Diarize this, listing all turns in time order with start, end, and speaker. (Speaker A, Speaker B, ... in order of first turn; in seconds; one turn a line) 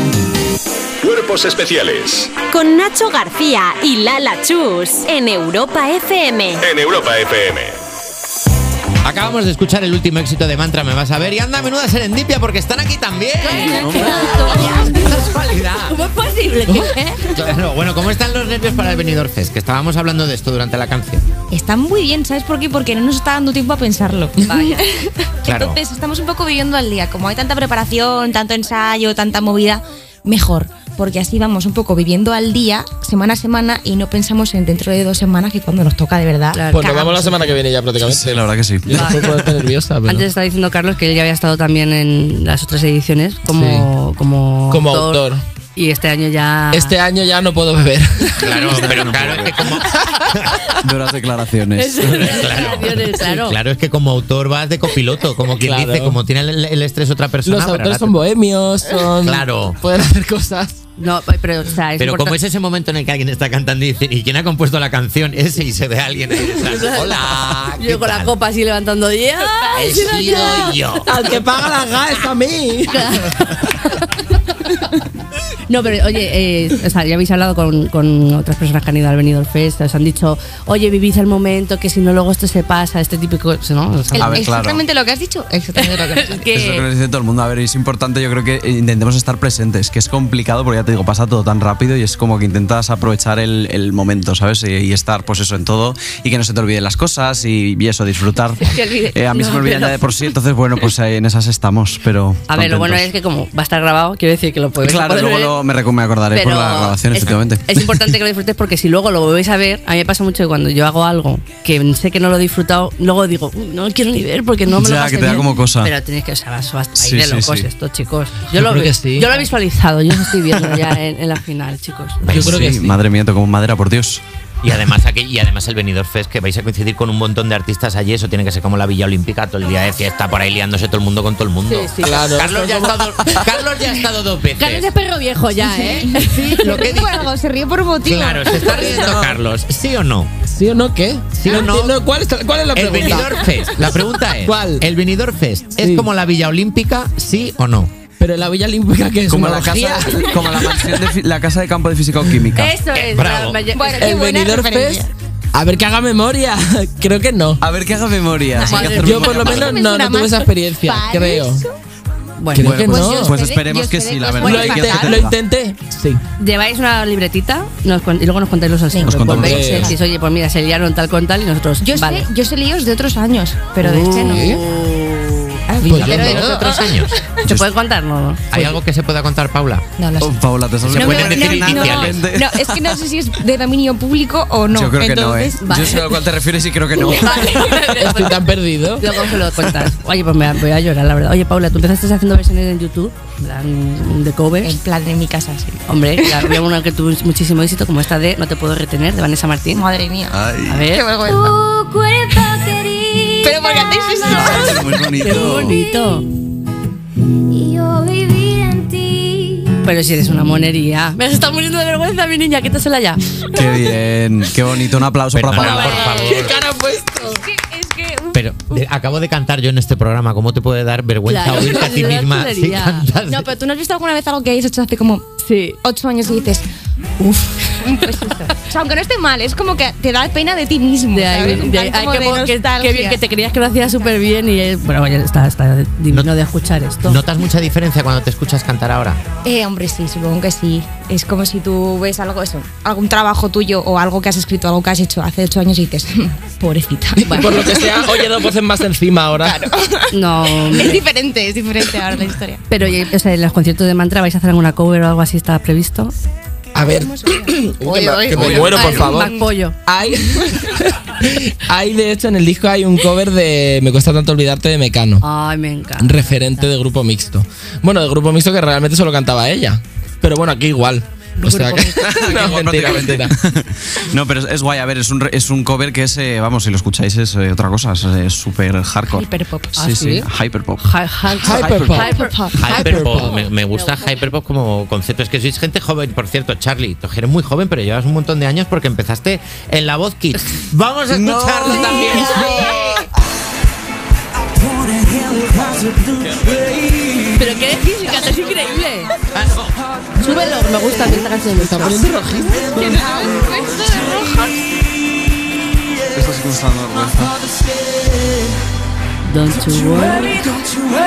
Speaker A: 1.0-2.3
Speaker B: 2.5-6.7
Speaker A: 6.6-7.8
Speaker C: 9.0-15.9
Speaker D: 13.4-17.5
Speaker E: 13.6-14.9
Speaker C: 17.4-21.2
Speaker E: 21.5-37.4
Speaker D: 24.4-24.8
Speaker C: 25.4-25.8
Speaker D: 36.5-37.5
Speaker F: 36.7-40.2
Speaker G: 38.0-39.5
Speaker D: 38.9-39.3
Speaker D: 40.0-45.2
Speaker F: 43.5-43.9
Speaker F: 44.7-45.4
Speaker D: 45.8-46.9
Speaker F: 46.7-50.3
Speaker C: 48.4-50.7
Speaker G: 48.7-49.7
Speaker G: 50.8-52.3
Speaker D: 51.7-53.6
Speaker C: 52.2-58.2
Speaker F: 55.5-56.2
Speaker F: 57.4-60.8
Speaker C: 59.2-59.8
Speaker D: 61.0-62.4
Speaker C: 62.0-68.3
Speaker D: 66.5-71.2
Speaker C: 69.7-71.1
Speaker F: 71.1-73.2
Speaker D: 72.9-74.9
Speaker D: 75.7-84.4
Speaker E: 84.1-86.8
Speaker G: 84.2-84.8
Speaker D: 85.8-86.8
Speaker G: 86.5-103.1
Speaker D: 98.8-100.1
Speaker D: 102.5-105.6
Speaker G: 104.8-108.2
Speaker D: 106.3-122.7
Speaker G: 114.7-115.9
Speaker G: 117.0-117.7
Speaker F: 118.5-119.4
Speaker C: 122.2-122.6
Speaker F: 122.2-123.0
Speaker G: 122.3-124.2
Speaker C: 124.6-134.9
Speaker D: 131.7-132.3
Speaker F: 132.0-133.0
Speaker D: 134.5-136.7
Speaker E: 135.7-139.2
Speaker C: 136.6-137.3
Speaker C: 138.0-140.3
Speaker F: 138.9-139.2
Speaker F: 140.5-144.9
Speaker C: 141.3-142.0
Speaker C: 142.7-148.0
Speaker F: 145.8-146.1
Speaker F: 148.2-150.8
Speaker G: 149.3-152.7
Speaker D: 152.5-154.2
Speaker C: 152.9-153.6
Speaker E: 153.7-155.1
Speaker F: 153.9-157.6
Speaker G: 157.6-159.7
Speaker E: 158.6-161.7
Speaker D: 158.7-159.3
Speaker F: 159.0-161.6
Speaker D: 162.4-162.8
Speaker F: 162.5-163.4
Speaker G: 162.6-165.3
Speaker E: 162.7-165.2
Speaker F: 164.4-166.2
Speaker D: 166.4-172.3
Speaker E: 168.9-170.0
Speaker G: 169.1-169.8
Speaker F: 169.2-169.9
Speaker E: 171.8-174.6
Speaker D: 173.8-176.2
Speaker F: 174.2-174.6
Speaker E: 175.7-177.4
Speaker F: 175.8-176.6
Speaker C: 176.0-177.1
Speaker D: 177.4-178.6
Speaker C: 178.5-179.8
Speaker E: 180.0-185.9
Speaker G: 180.2-182.9
Speaker C: 180.8-182.2
Speaker G: 184.7-187.9
Speaker D: 185.6-186.0
Speaker D: 187.0-188.4
Speaker E: 187.1-187.7
Speaker F: 187.9-189.1
Speaker D: 189.0-194.8
Speaker E: 194.6-196.6
Speaker D: 195.9-199.9
Speaker E: 199.7-201.6
Speaker G: 200.3-200.9
Speaker D: 200.7-201.1
Speaker H: 201.2-203.6
Speaker E: 203.4-205.3
Speaker G: 204.3-205.8
Speaker D: 205.2-206.2
Speaker H: 207.5-209.8
Speaker D: 209.8-213.2
Speaker G: 213.5-215.9
Speaker C: 215.3-216.6
Speaker E: 215.5-218.8
Speaker F: 215.6-217.4
Speaker C: 218.3-223.5
Speaker D: 221.2-223.1
Speaker E: 223.3-225.3
Speaker D: 225.4-225.8
Speaker E: 225.8-226.6
Speaker D: 227.2-227.9
Speaker E: 227.7-233.2
Speaker D: 231.1-237.2
Speaker C: 237.0-239.2
Speaker E: 239.4-248.3
Speaker F: 247.2-249.6
Speaker D: 247.2-247.6
Speaker E: 249.4-252.6
Speaker D: 250.1-251.0
Speaker D: 252.7-256.1
Speaker F: 256.7-265.2
Speaker E: 256.8-259.4
Speaker D: 258.5-259.8
Speaker D: 265.2-266.6
Speaker F: 266.0-273.3
Speaker D: 271.4-272.4
Speaker G: 272.0-280.9
Speaker E: 279.1-279.7
Speaker D: 279.8-280.3
Speaker D: 280.8-284.1
Speaker F: 281.4-283.4
Speaker G: 281.4-282.1
Speaker E: 281.9-282.7
Speaker C: 282.6-293.1
Speaker G: 291.1-292.0
Speaker D: 291.6-292.7
Speaker F: 295.1-296.1
Speaker G: 296.0-296.9
Speaker D: 297.3-299.1
Speaker C: 299.3-299.7
Speaker D: 300.2-302.1
Speaker F: 301.0-303.0
Speaker E: 302.7-304.2
Speaker D: 303.6-304.5
Speaker G: 306.1-307.4
Speaker D: 309.2-310.5